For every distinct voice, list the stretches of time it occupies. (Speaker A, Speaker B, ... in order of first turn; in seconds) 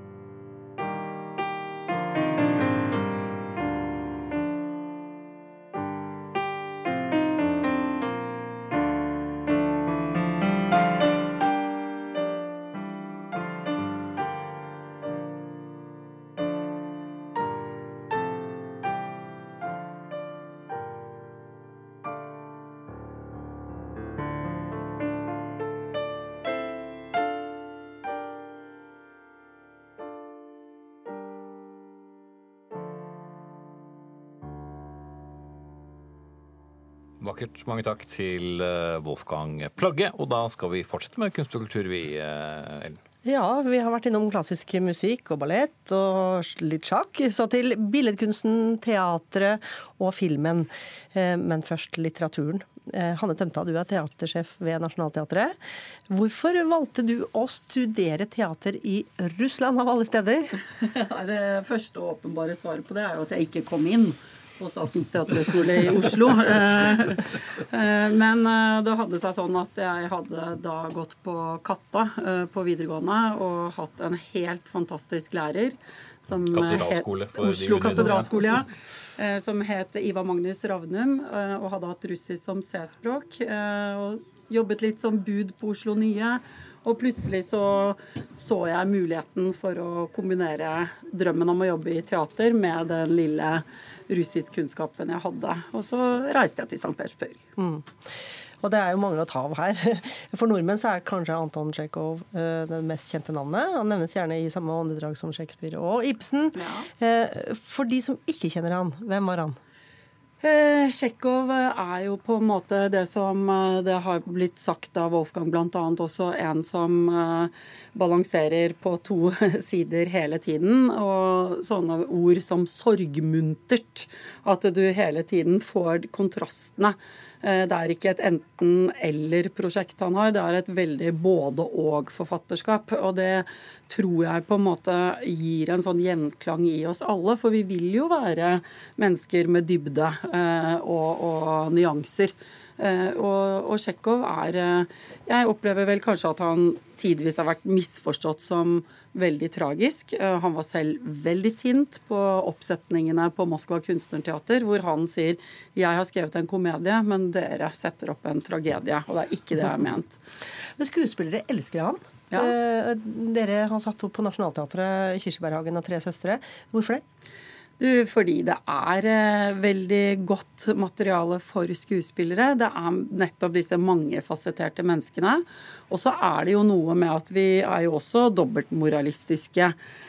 Speaker A: 37.2-43.0, 76.5-78.3
Speaker B: 43.2-55.5, 56.1-60.6, 97.6-97.8, 98.6-109.6, 160.8-167.0
Speaker C: 60.8-97.4, 106.6-106.9, 110.4-160.2, 167.8-179.8